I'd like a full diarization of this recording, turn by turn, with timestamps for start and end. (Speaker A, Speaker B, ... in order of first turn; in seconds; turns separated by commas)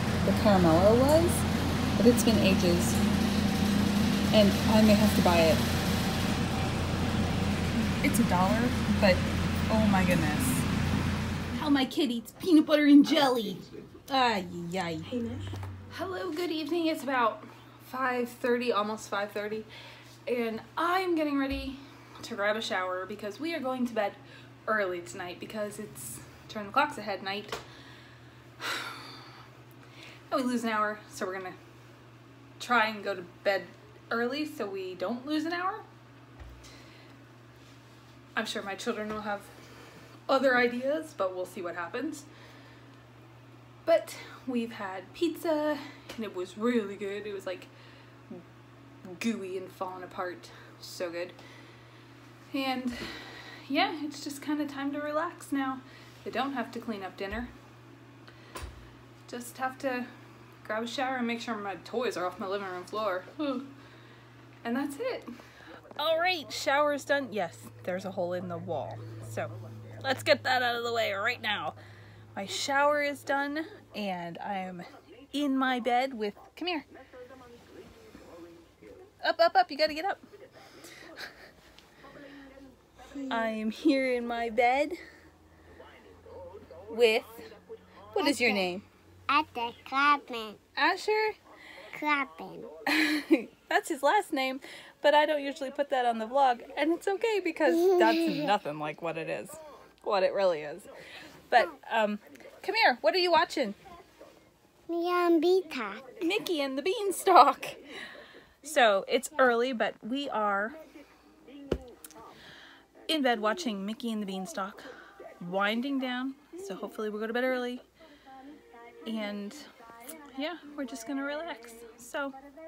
Speaker A: 0.2-1.5, Speaker A: 2.0-3.0, Speaker A: 4.3-5.6, Speaker A: 8.0-10.7, Speaker A: 11.5-15.1, Speaker A: 15.9-19.7, Speaker A: 20.3-27.6, Speaker A: 28.6-29.2, Speaker A: 30.3-31.6, Speaker A: 32.6-35.9, Speaker A: 38.4-39.5, Speaker A: 40.3-42.3, Speaker A: 43.9-47.7, Speaker A: 49.1-51.4, Speaker A: 52.5-57.5, Speaker A: 59.3-60.1, Speaker A: 60.6-63.7, Speaker A: 64.6-65.3, Speaker A: 66.0-71.8, Speaker A: 72.3-76.9, Speaker A: 79.2-80.2, Speaker A: 83.3-85.0, Speaker A: 86.9-87.5, Speaker A: 88.1-88.8, Speaker B: 88.2-88.7, Speaker B: 89.3-90.6, Speaker A: 90.8-91.4, Speaker B: 91.9-92.7, Speaker A: 92.9-100.9, Speaker B: 97.7-98.5, Speaker A: 101.5-103.8, Speaker B: 104.9-106.0, Speaker A: 106.2-107.8, Speaker A: 108.6-110.8, Speaker A: 113.1-117.9, Speaker A: 119.0-119.7, Speaker A: 120.3-122.3